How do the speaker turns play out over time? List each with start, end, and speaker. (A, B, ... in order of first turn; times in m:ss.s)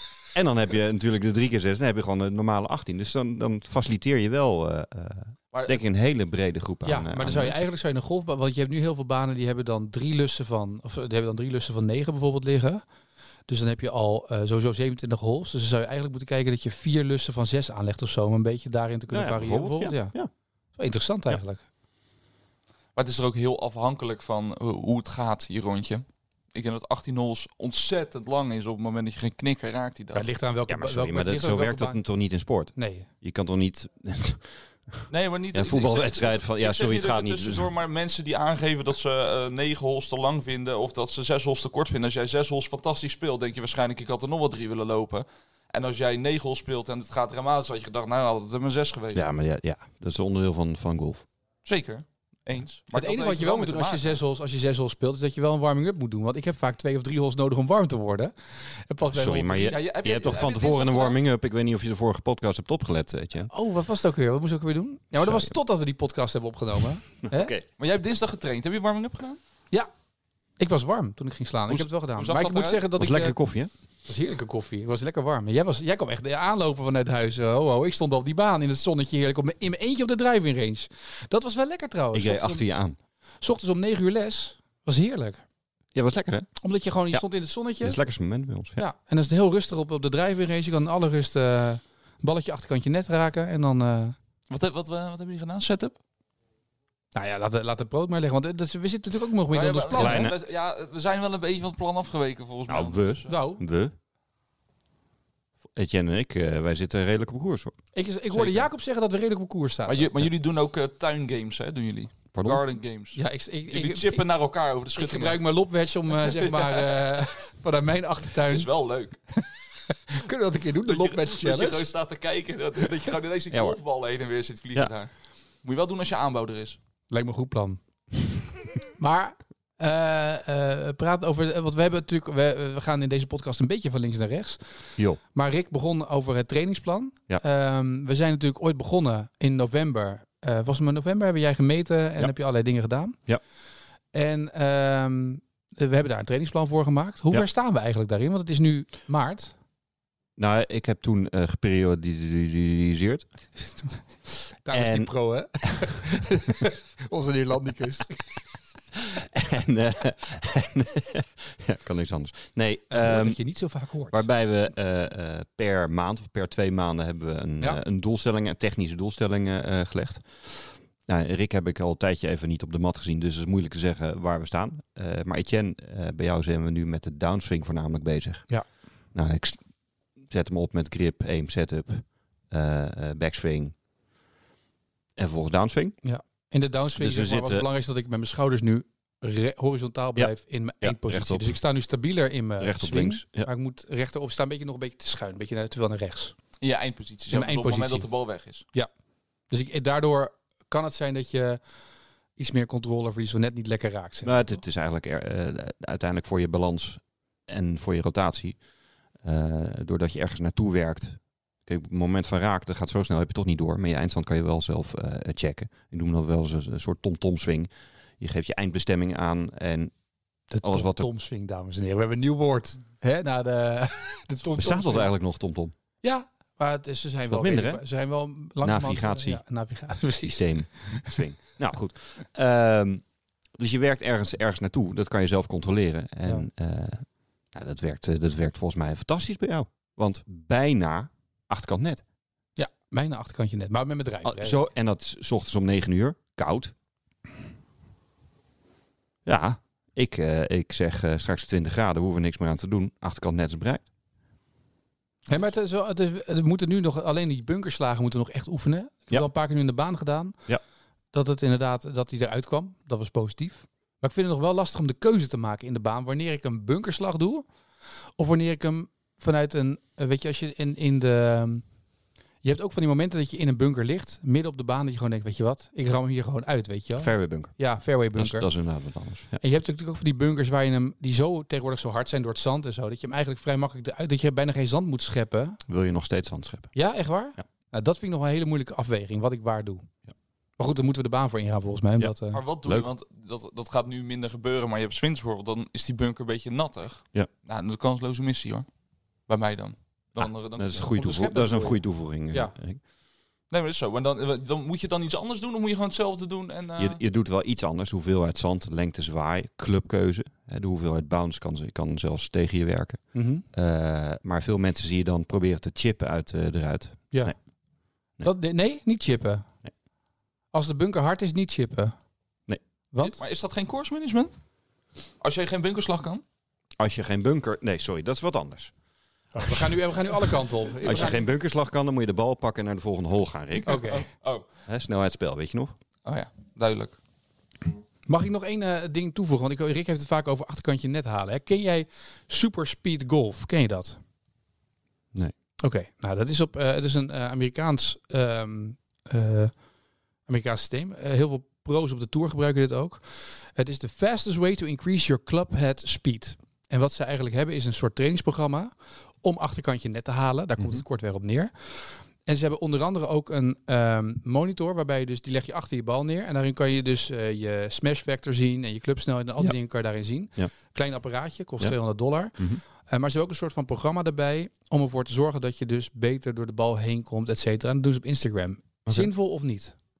0:00.3-0:07.6 A
0:05.5-0:05.8 B
0:06.8-0:12.8 C
0:13.5-0:20.1 C
0:19.1-0:20.3 A
0:20.8-0:21.6 C
0:22.9-0:30.3 B
0:30.1-0:32.0 C
0:30.7-0:37.7 A
0:32.8-0:33.1 C
0:35.1-0:49.3 B
0:49.1-0:51.2 A
0:51.6-0:54.2 B
0:52.9-0:59.7 C
0:59.1-1:03.5 A
0:59.6-1:01.2 B
1:03.5-1:07.5 C
1:05.2-1:05.5 A
1:07.2-1:07.6 A
1:07.8-1:09.4 B
1:10.6-1:13.4 C
1:11.7-1:12.9 B
1:12.9-1:13.7 A
1:14.1-1:22.6 C
1:22.1-1:23.0 A
1:23.4-1:25.4 C
1:25.9-1:26.5 A
1:26.6-1:28.0 C
1:27.8-1:28.8 A
1:28.8-1:34.2 C
1:34.5-1:36.0 B
1:37.1-1:40.3 C
1:39.5-1:43.3 B
1:39.9-1:40.4 A
1:42.7-1:43.9 A
1:43.3-1:43.6 C
1:45.7-1:47.7 A
1:47.9-1:50.1 C
1:48.3-1:48.7 B
1:49.9-1:55.4 B
1:52.3-1:52.6 A
1:53.1-1:54.2 C
1:55.0-1:58.7 C
1:56.2-1:56.8 B
1:58.5-1:59.2 B
2:00.1-2:01.8 C
2:00.8-2:05.1 B
2:03.5-2:03.8 A
2:05.6-2:06.8 B
2:07.1-2:07.8 C
2:09.0-2:14.6 C
2:15.3-2:23.2 C
2:24.1-2:29.5 C
2:30.4-2:33.3 A
2:34.6-2:38.3 C
2:34.7-2:35.1 A
2:38.9-2:43.4 A
2:42.9-2:44.2 C
2:44.1-2:58.4 A
2:59.1-2:59.6 A
3:00.2-3:03.7 A
3:05.2-3:06.0 A
3:06.0-3:16.4 C
3:07.0-3:07.6 A
3:10.2-3:11.5 A
3:12.6-3:13.5 A
3:16.6-3:18.6 B
3:17.3-3:18.0 C
3:19.5-3:21.6 C
3:22.4-3:24.6 C
3:24.2-3:28.6 A
3:29.2-3:39.9 A
3:40.5-3:45.1 C
3:40.6-3:41.1 A
3:44.5-3:45.7 A
3:46.0-3:51.2 C
3:47.3-3:47.8 A
3:48.6-3:49.4 A
3:50.2-3:53.0 A
3:53.6-4:02.0 A
4:02.6-4:04.6 C
4:04.2-4:06.7 A
4:09.2-4:13.8 A
4:15.3-4:20.4 C
4:21.1-4:27.4 C
4:28.2-4:31.6 C
4:32.4-4:38.5 C
4:37.0-4:39.4 A
4:39.4-4:45.6 C
4:45.7-4:46.7 A
4:46.7-4:49.8 C
4:50.6-4:52.4 C
4:52.3-4:58.6 B
4:52.6-4:52.9 A
4:59.3-5:00.9 B
5:00.2-5:02.8 A
5:00.9-5:02.5 C
5:03.5-5:07.0 B
5:06.8-5:13.0 A
5:13.1-5:13.4 C
5:13.5-5:17.4 A
5:18.2-5:19.4 C
5:20.5-5:21.9 C
5:22.9-5:23.2 C
5:23.0-5:24.3 B
5:25.2-5:26.2 B
5:26.8-5:28.7 A
5:29.3-5:31.3 C
5:29.4-5:29.7 A
5:30.8-5:33.9 A
5:33.6-5:34.1 C
5:33.7-5:34.4 B
5:34.7-5:35.7 A
5:36.0-5:37.0 B
5:38.1-5:44.0 C
5:45.6-5:49.5 C
5:50.3-5:58.7 C
5:59.2-6:19.7 C